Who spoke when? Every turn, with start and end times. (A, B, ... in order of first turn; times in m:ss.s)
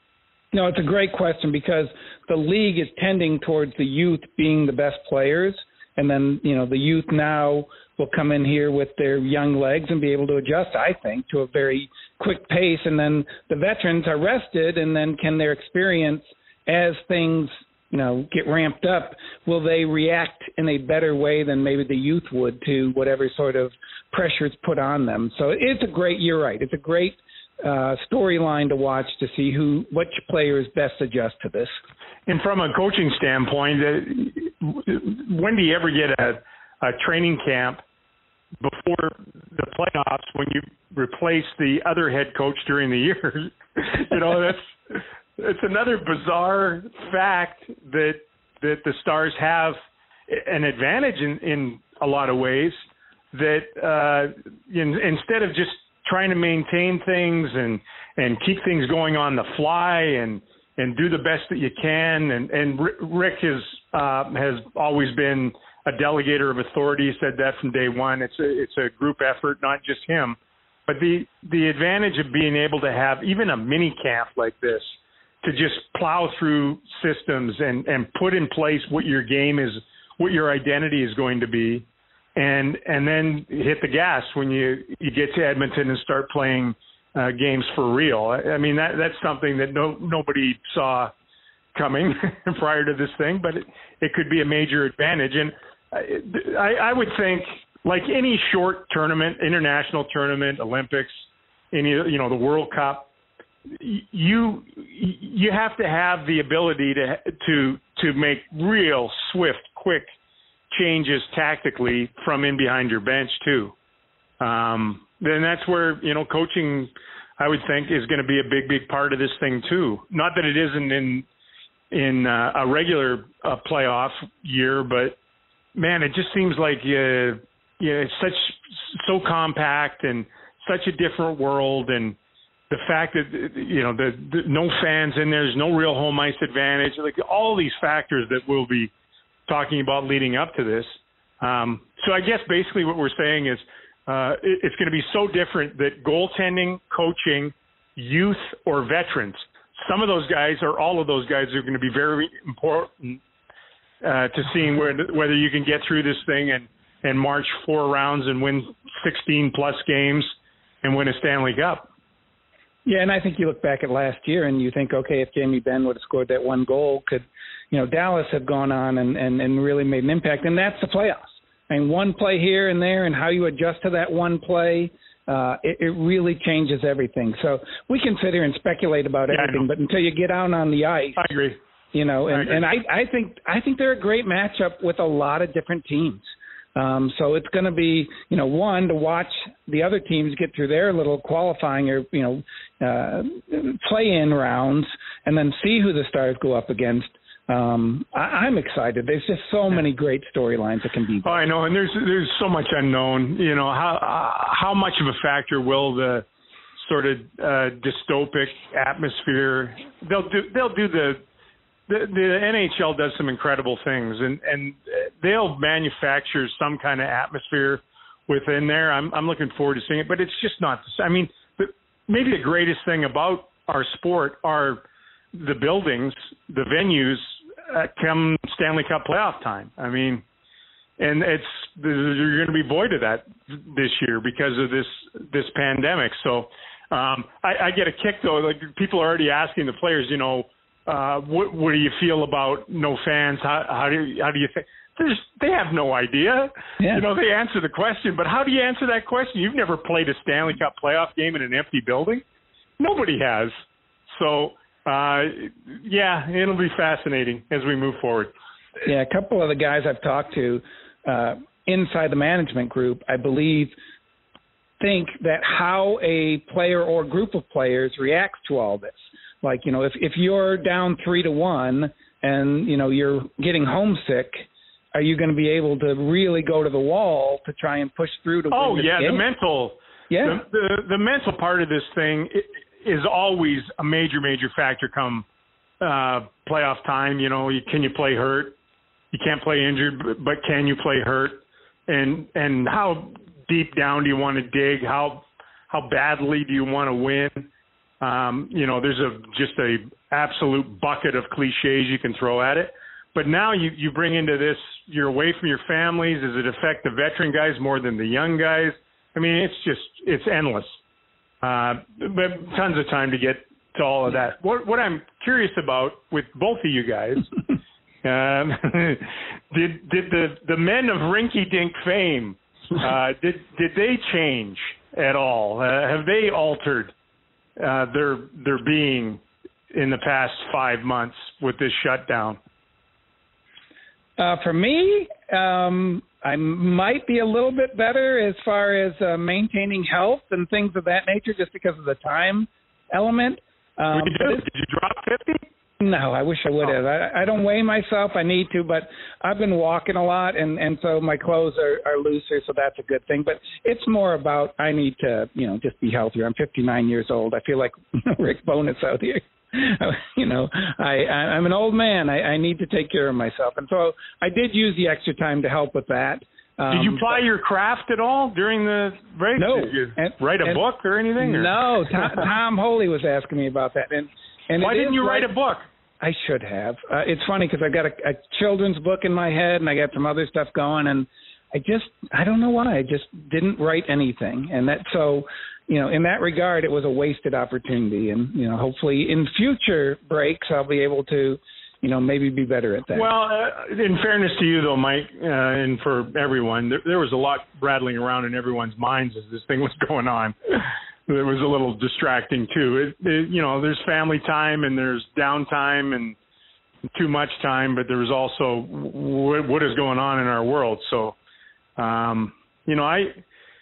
0:00.5-0:31.7 A
0:32.3-0:37.8 B
0:38.6-0:49.8 B
0:50.3-0:52.8 B
0:53.3-1:21.8 B
1:22.4-1:31.1 B
1:31.8-1:43.1 B
1:43.7-1:50.1 B
1:50.7-1:53.7 B
1:54.4-2:01.3 B
2:01.9-2:05.2 B
2:05.8-2:12.2 B
2:12.7-2:18.9 B
2:19.5-2:33.2 B
2:34.0-2:40.3 B
2:40.8-2:41.9 B
2:42.9-3:01.2 A
2:59.3-2:59.6 B
3:01.2-3:01.6 B
3:01.9-3:21.4 A
3:02.3-3:02.6 B
3:21.2-3:26.2 B
3:26.8-3:31.2 B
3:31.9-3:50.2 B
3:51.0-4:12.2 B
4:06.8-4:07.0 A
4:12.8-4:13.5 B
4:14.1-4:18.3 B
4:18.8-4:23.8 A
4:24.8-4:39.2 A
4:38.5-4:45.2 B
4:40.1-4:40.4 A
4:45.8-4:48.6 B
4:49.1-4:57.5 B
4:58.0-5:10.8 B
5:11.4-5:17.3 B
5:18.0-5:26.9 B
5:27.6-5:29.2 B
5:29.7-5:32.4 B
5:34.2-5:44.4 A
5:43.9-5:45.4 B
5:45.8-6:07.2 A
6:06.7-6:12.1 B
6:09.4-6:10.6 A
6:11.2-6:15.3 A
6:14.6-6:15.6 B
6:16.0-6:33.1 A
6:32.9-6:46.2 B
6:46.9-6:51.2 B
6:51.8-6:53.2 B